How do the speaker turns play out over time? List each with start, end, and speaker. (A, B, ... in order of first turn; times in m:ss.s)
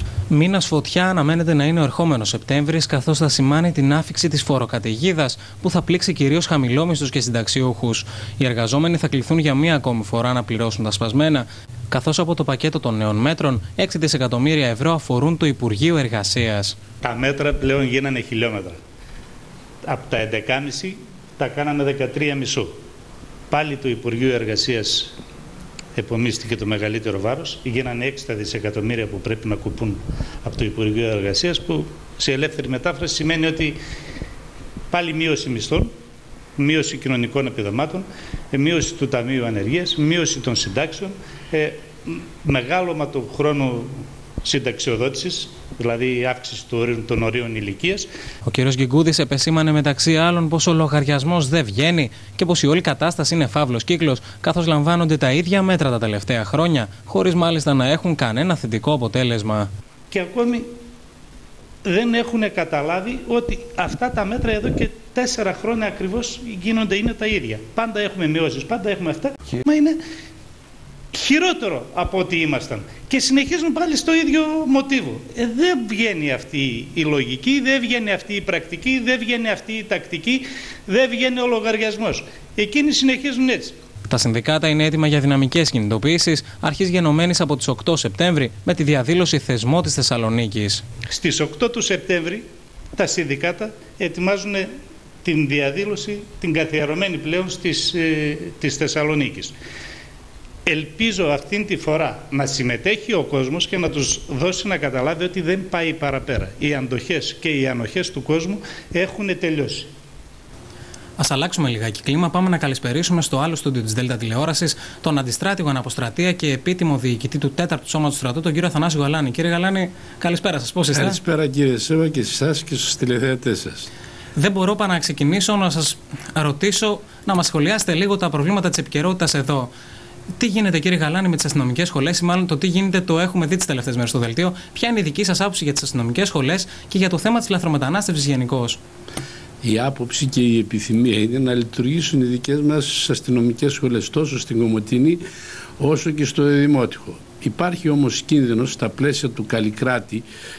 0:00.3-0:16.8 A
0:17.0-0:18.8 B
0:19.8-0:22.7 B
0:23.5-0:25.2 B
0:26.0-0:33.8 B
0:34.9-0:35.9 B
0:36.6-0:48.1 B
0:48.4-0:59.7 A
1:00.1-1:00.6 B
1:01.8-1:10.0 B
1:11.1-1:23.7 B
1:24.1-1:30.8 A
1:31.1-1:32.4 B
1:32.9-1:34.7 B
1:35.2-1:39.5 B
1:40.6-1:49.9 B
1:51.2-2:01.2 A
2:00.9-2:03.9 C
2:04.4-2:09.7 A
2:10.4-2:18.8 A
2:19.6-2:25.2 C
2:25.8-2:30.2 C